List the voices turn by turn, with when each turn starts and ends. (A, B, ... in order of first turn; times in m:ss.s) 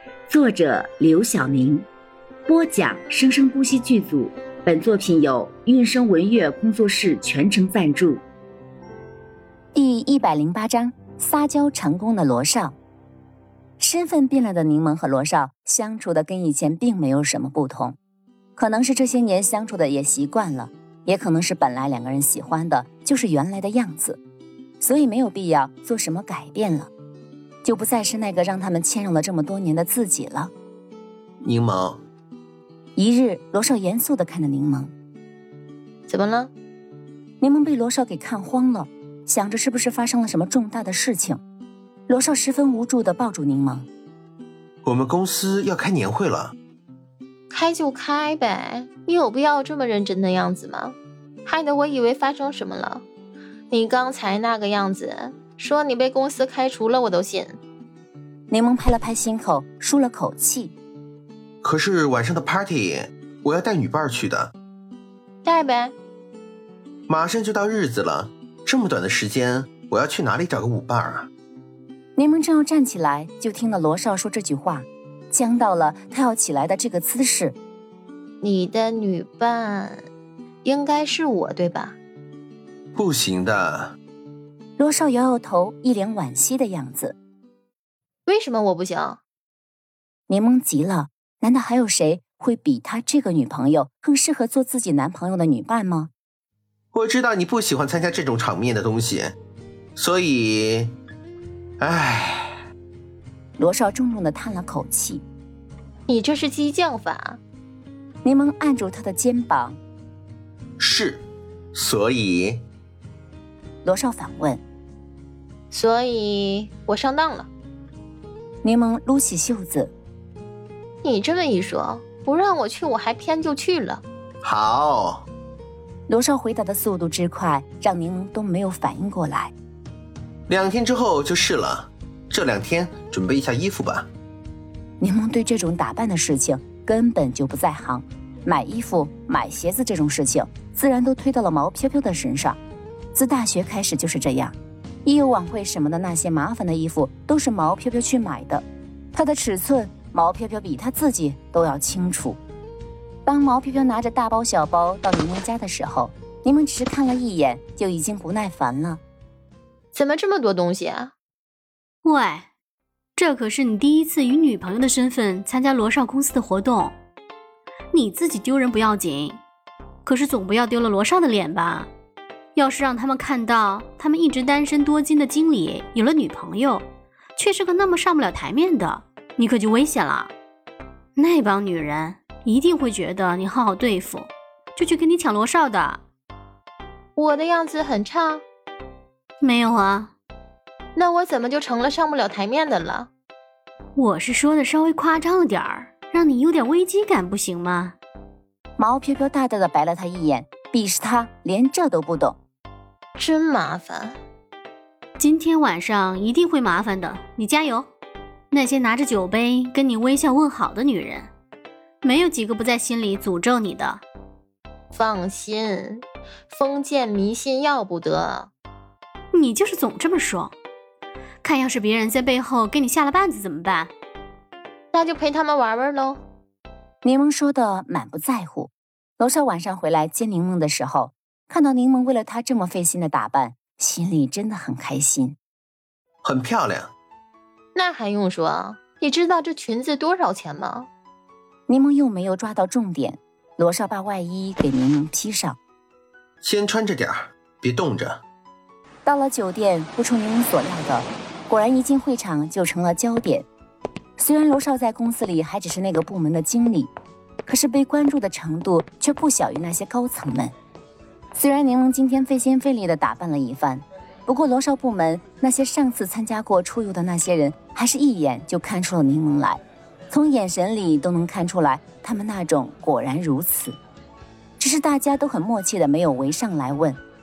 0:00.3-0:01.9 A
0:02.5-0:08.2 A
0:09.7-0:12.7 B
0:13.8-0:18.0 B
0:18.6-0:24.2 B
0:24.8-0:26.9 B
0:27.6-0:30.5 B
0:31.4-0:32.0 C
0:33.0-0:34.9 B
0:36.1-0:36.5 D
0:37.4-0:41.4 B
0:42.1-0:43.9 B
0:44.8-0:46.5 C
0:47.5-0:53.0 D
0:53.7-0:57.6 D
0:58.5-1:00.7 B
1:01.6-1:04.5 C
1:05.4-1:05.9 D
1:07.1-1:11.3 C
1:12.2-1:17.6 B
1:18.4-1:20.0 D
1:20.6-1:22.0 D
1:22.9-1:24.0 C
1:24.8-1:27.2 B
1:28.3-1:29.2 D
1:30.3-1:36.1 B
1:36.9-1:39.3 C
1:40.0-1:40.9 C
1:41.8-1:42.6 C
1:43.6-1:45.2 B
1:46.1-1:47.4 D
1:48.2-1:49.8 B
1:50.8-1:52.6 C
1:53.8-1:54.6 B
1:55.7-1:57.5 D
1:58.6-1:59.9 B
2:01.0-2:04.0 D
2:04.4-2:05.2 C
2:06.1-2:09.5 B
2:10.5-2:14.1 C
2:15.0-2:22.6 B
2:23.1-2:32.4 B
2:33.2-2:39.0 B
2:39.9-2:41.1 D
2:42.0-2:42.5 E
2:43.2-2:47.0 E
2:47.9-2:49.4 E
2:50.0-2:51.9 E
2:52.5-2:56.8 E
2:57.4-3:00.3 E
3:01.2-3:06.0 E
3:07.2-3:08.4 D
3:09.4-3:10.1 E
3:10.9-3:13.1 D
3:13.9-3:18.0 E
3:18.8-3:22.4 B
3:23.2-3:24.2 D
3:25.2-3:27.9 E
3:28.5-3:31.3 E
3:32.0-3:34.0 E
3:34.9-3:38.5 D
3:39.3-3:40.5 E
3:41.4-3:43.9 E
3:44.9-3:46.2 D
3:47.0-3:55.4 B
3:56.2-3:56.9 C
3:57.7-4:00.9 D
4:01.7-4:05.6 B
4:06.4-4:08.2 C
4:09.0-4:13.4 B
4:14.2-4:16.9 B
4:17.4-4:20.5 B
4:21.3-4:33.8 B
4:34.6-4:37.0 B